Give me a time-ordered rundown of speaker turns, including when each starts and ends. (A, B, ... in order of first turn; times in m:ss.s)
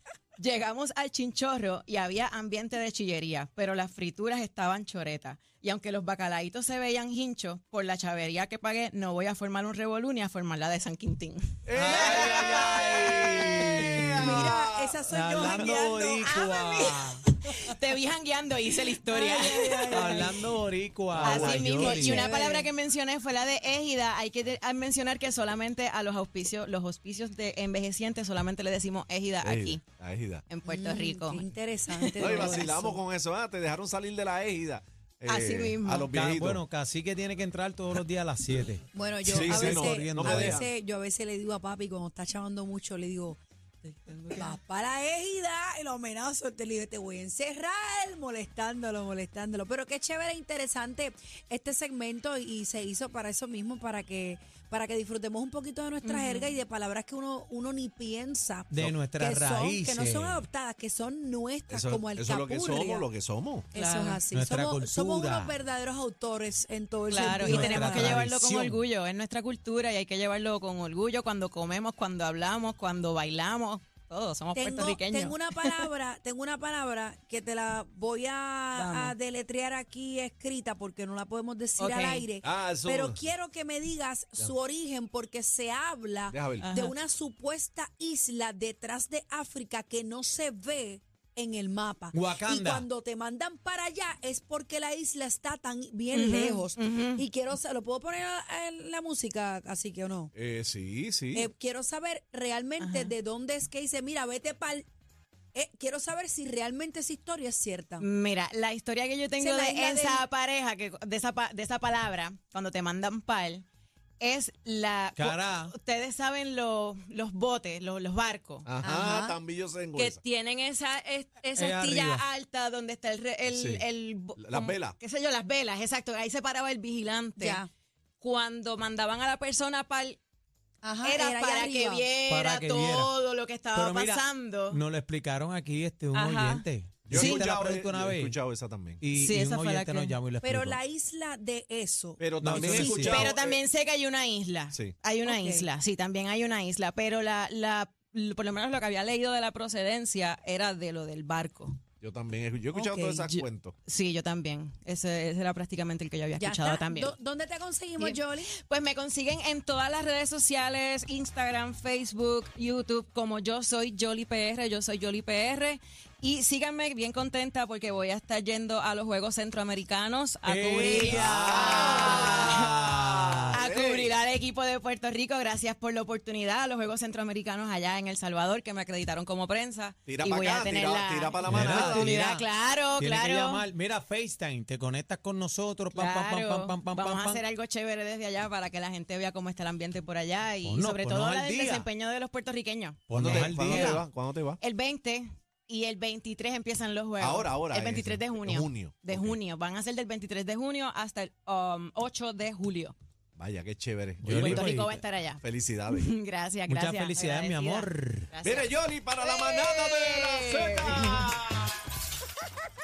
0:00.4-0:13.3 A
0:11.6-0:15.6 B
0:11.8-0:14.6 C
0:14.2-0:16.4 D
0:15.1-0:17.2 C
0:16.2-0:20.4 A
0:19.0-0:20.5 D
0:19.9-0:22.3 C
0:21.2-0:29.8 A
0:21.2-0:21.6 B
0:21.6-0:22.7 D
0:29.4-0:30.4 B
0:30.5-0:32.7 A
0:30.6-0:33.0 D
0:32.2-0:36.6 B
0:35.3-0:36.1 A
0:36.1-0:40.7 C
0:38.9-0:43.4 D
0:39.2-0:40.6 B
0:43.8-0:44.6 A
0:44.3-1:03.1 D
0:56.0-0:56.6 A
0:58.7-1:00.4 C
1:01.7-1:03.7 B
1:03.7-1:08.2 D
1:03.7-1:04.2 A
1:04.3-1:05.5 C
1:07.1-1:15.9 A
1:07.4-1:08.8 C
1:14.6-1:40.3 D
1:18.7-1:19.2 A
1:21.8-1:22.3 A
1:22.4-1:23.2 B
1:26.3-1:26.7 B
1:26.6-1:26.9 A
1:32.1-1:32.9 C
1:36.1-1:37.2 A
1:40.3-1:41.5 B
1:41.3-1:44.9 D
1:42.8-1:43.1 A
1:45.5-1:48.1 D
1:48.0-1:53.6 A
1:49.4-1:50.2 D
1:54.2-1:58.7 A
1:55.2-1:55.7 C
1:58.6-2:00.2 B
1:58.8-1:59.4 D
2:00.0-2:07.6 A
2:01.6-2:02.2 C
2:03.5-2:03.8 B
2:04.4-2:05.0 B
2:07.4-2:07.7 D
2:08.2-2:10.2 A
2:10.8-2:12.1 D
2:11.0-2:14.8 A
2:12.3-2:13.1 C
2:13.7-2:18.4 C
2:16.1-2:17.5 A
2:17.1-2:19.0 B
2:19.0-2:20.8 C
2:19.1-2:20.2 A
2:20.4-2:23.2 D
2:22.2-2:23.6 B
2:22.4-2:23.3 C
2:22.7-2:31.8 A
2:25.2-2:25.7 D
2:32.0-2:33.8 B
2:32.7-2:33.3 D
2:33.3-2:37.2 A
2:36.4-2:38.5 D
2:38.0-2:52.7 A
2:50.4-2:53.6 C
2:51.0-2:54.1 B
2:53.5-3:03.6 A
3:00.1-3:02.1 B
3:01.5-3:02.5 C
3:03.0-3:07.4 C
3:05.9-3:14.0 A
3:10.6-3:11.9 C
3:13.1-3:14.0 C
3:13.1-3:14.6 B
3:14.6-3:23.0 A
3:17.2-3:19.4 B
3:23.4-3:24.9 B
3:24.2-3:25.0 C
3:24.2-3:31.3 A
3:25.4-3:26.1 B
3:26.7-3:28.3 C
3:28.4-3:31.8 B